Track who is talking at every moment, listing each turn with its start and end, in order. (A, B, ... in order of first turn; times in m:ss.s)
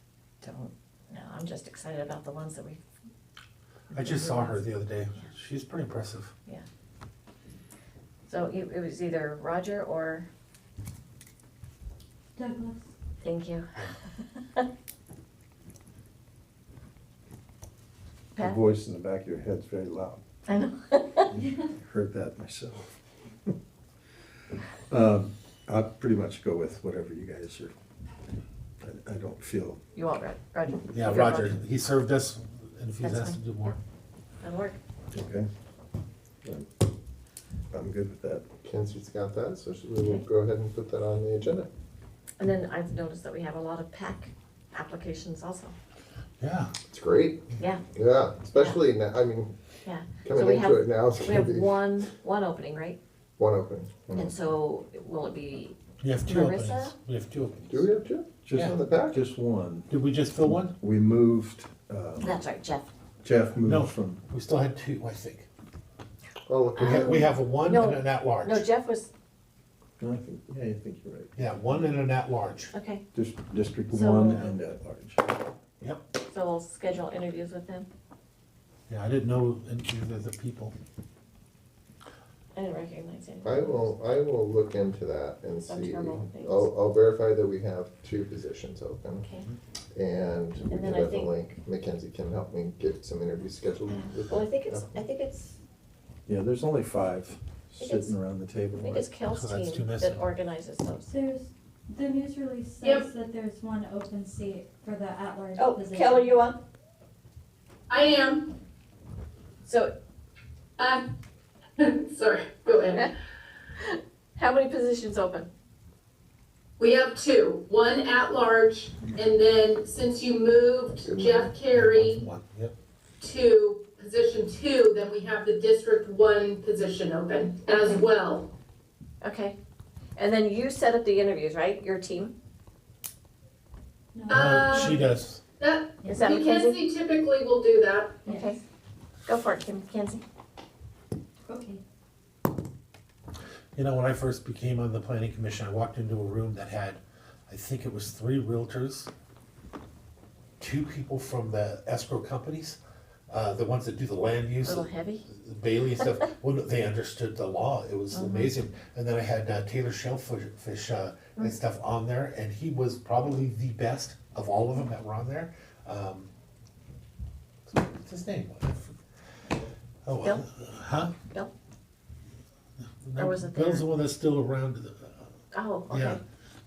0:00.4-0:02.8 A
0:03.9-0:06.3 B
0:04.1-0:04.6 A
0:08.3-0:10.3 A
0:12.4-0:12.8 C
0:13.2-0:14.7 A
0:18.4-0:20.2 D
0:20.5-0:21.3 A
0:21.4-0:21.6 C
0:21.6-0:22.9 D
0:24.9-0:27.7 D
0:28.8-0:29.8 D
0:30.0-0:31.6 A
0:30.9-0:33.8 B
0:33.0-0:33.8 A
0:34.4-0:34.8 A
0:35.1-0:35.5 D
0:37.7-0:38.4 D
0:38.6-0:41.7 E
0:42.4-0:45.8 A
0:46.4-0:46.7 B
0:46.9-0:49.5 E
0:49.8-0:53.0 A
0:50.2-0:51.8 E
0:53.4-0:54.4 E
0:54.2-0:57.0 A
0:56.0-0:57.9 B
0:57.7-0:59.2 E
0:58.4-0:59.9 D
0:59.9-1:00.8 B
1:00.6-1:02.4 D
1:02.2-1:02.9 A
1:03.2-1:04.2 D
1:03.6-1:05.5 B
1:06.5-1:07.3 E
1:06.8-1:08.7 B
1:06.8-1:07.1 A
1:07.6-1:09.1 A
1:10.0-1:11.4 D
1:11.4-1:12.7 B
1:12.7-1:13.0 A
1:13.1-1:15.3 D
1:13.9-1:14.4 A
1:15.8-1:16.1 B
1:16.3-1:17.9 A
1:18.9-1:20.8 B
1:22.6-1:23.9 A
1:23.4-1:29.3 E
1:25.7-1:26.7 A
1:29.2-1:29.5 A
1:29.9-1:35.0 E
1:30.7-1:31.3 A
1:33.9-1:35.6 A
1:36.3-1:39.1 D
1:37.8-1:38.2 A
1:38.7-1:41.1 A
1:39.3-1:40.3 B
1:41.1-1:46.4 C
1:42.8-1:43.1 F
1:45.6-1:46.6 A
1:47.9-1:48.6 F
1:49.6-1:49.9 A
1:50.8-1:51.2 F
1:51.8-1:53.2 F
1:53.8-1:55.5 A
1:56.8-2:02.3 F
2:01.1-2:01.5 E
2:01.7-2:02.7 B
2:03.2-2:08.5 F
2:07.7-2:08.1 A
2:09.2-2:09.6 A
2:10.2-2:12.3 A
2:14.1-2:15.2 C
2:14.3-2:14.9 F
2:14.3-2:15.4 B
2:15.6-2:18.3 F
2:16.0-2:16.4 C
2:16.0-2:16.8 A
2:18.2-2:18.6 C
2:18.3-2:18.6 A
2:19.3-2:20.2 A
2:21.5-2:21.8 C
2:23.8-2:29.1 B
2:30.6-2:32.8 B
2:33.3-2:46.3 B
2:34.6-2:35.2 A
2:38.1-2:38.5 A
2:47.7-2:49.0 B
2:50.1-2:51.2 B
2:53.0-2:55.3 B
2:53.2-2:53.9 A
2:55.5-2:56.2 A
2:55.9-2:56.2 B